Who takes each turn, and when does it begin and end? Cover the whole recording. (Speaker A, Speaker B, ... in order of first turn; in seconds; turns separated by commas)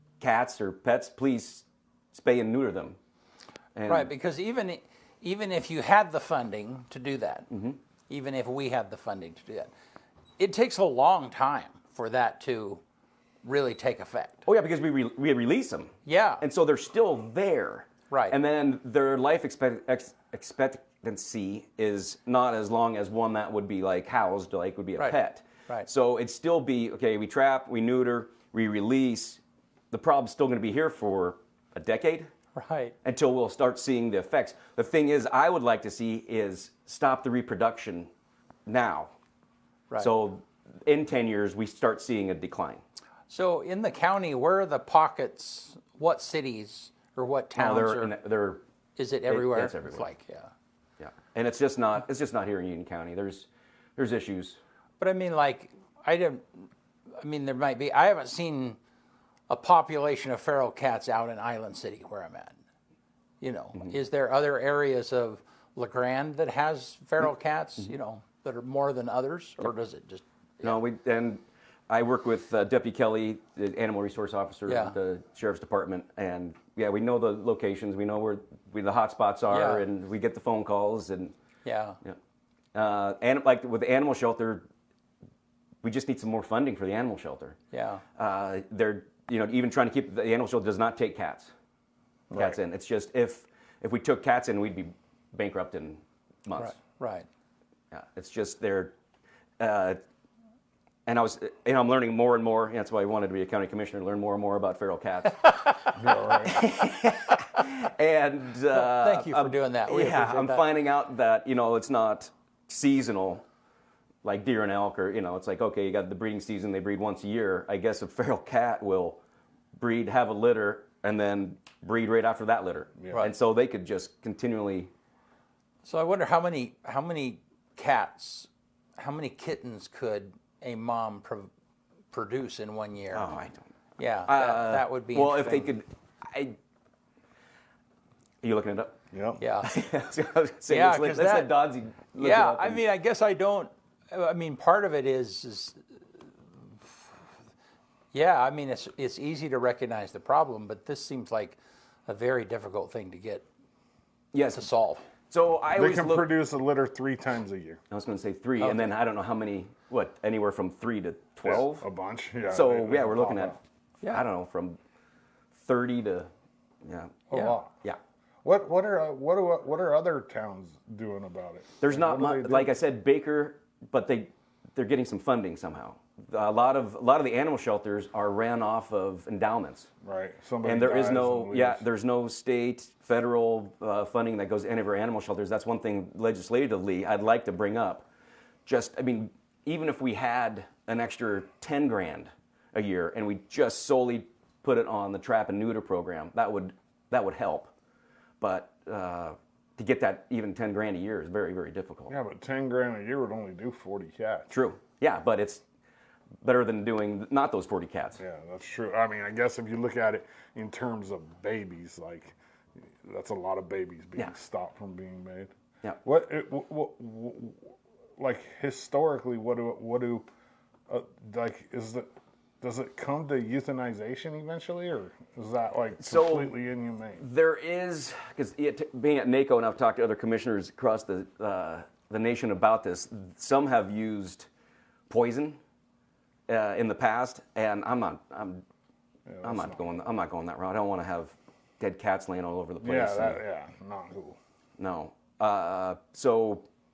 Speaker A: 0.2-3.0, Speaker A: 3.7-4.1, Speaker B: 3.9-7.5, Speaker A: 7.5-7.8, Speaker B: 8.1-9.7, Speaker B: 10.4-12.8, Speaker B: 13.4-14.4, Speaker A: 14.5-29.4, Speaker B: 16.1-16.4, Speaker B: 18.1-18.4, Speaker A: 29.9-32.3, Speaker B: 32.5-33.0, Speaker A: 33.0-38.1, Speaker A: 38.7-39.1, Speaker A: 40.0-42.8, Speaker B: 43.3-48.1, Speaker A: 47.6-48.6, Speaker B: 49.0-50.5, Speaker A: 49.3-50.1, Speaker A: 51.0-54.6, Speaker B: 55.0-56.7, Speaker B: 57.2-58.8, Speaker B: 59.5-62.5, Speaker B: 63.4-70.8, Speaker A: 70.6-81.3, Speaker B: 74.7-75.0, Speaker B: 79.5-79.8, Speaker B: 81.7-82.0, Speaker A: 82.7-84.7, Speaker A: 85.8-87.6, Speaker B: 87.7-88.0, Speaker A: 88.2-91.5, Speaker C: 92.3-92.6, Speaker A: 92.3-96.8, Speaker B: 96.6-97.3, Speaker A: 97.9-98.9, Speaker A: 99.6-100.0, Speaker A: 101.1-113.4, Speaker C: 106.0-106.6, Speaker B: 106.7-107.4, Speaker B: 108.7-110.7, Speaker A: 114.2-119.2, Speaker A: 119.8-124.9, Speaker B: 125.8-131.5, Speaker B: 132.1-133.3, Speaker A: 133.1-133.7, Speaker B: 134.0-135.7, Speaker A: 134.3-136.6, Speaker A: 138.4-139.0, Speaker C: 139.1-139.4, Speaker B: 139.4-139.8, Speaker A: 139.6-142.8, Speaker B: 140.7-141.5, Speaker B: 142.1-145.8, Speaker B: 148.1-153.4, Speaker A: 154.3-154.7, Speaker B: 154.5-155.1, Speaker A: 155.3-156.3, Speaker C: 155.8-157.8, Speaker A: 157.9-161.8, Speaker B: 158.6-158.9, Speaker C: 161.4-163.6, Speaker A: 162.5-164.8, Speaker A: 165.6-166.3, Speaker A: 166.8-167.3, Speaker B: 167.3-167.6, Speaker C: 167.3-167.7, Speaker C: 168.4-172.7, Speaker A: 171.8-179.9, Speaker C: 180.0-181.8, Speaker A: 180.6-188.1, Speaker A: 188.7-197.7, Speaker A: 198.4-202.1, Speaker C: 202.1-204.5, Speaker A: 204.5-205.6, Speaker A: 206.4-208.2, Speaker C: 208.2-212.4, Speaker C: 213.0-215.5, Speaker C: 216.0-220.3, Speaker C: 220.9-222.1, Speaker C: 222.6-227.2, Speaker A: 226.0-226.6, Speaker A: 227.2-234.5, Speaker A: 235.1-235.6, Speaker A: 236.5-238.6, Speaker C: 239.3-239.8, Speaker A: 239.4-243.4, Speaker C: 242.8-244.4, Speaker A: 244.8-246.7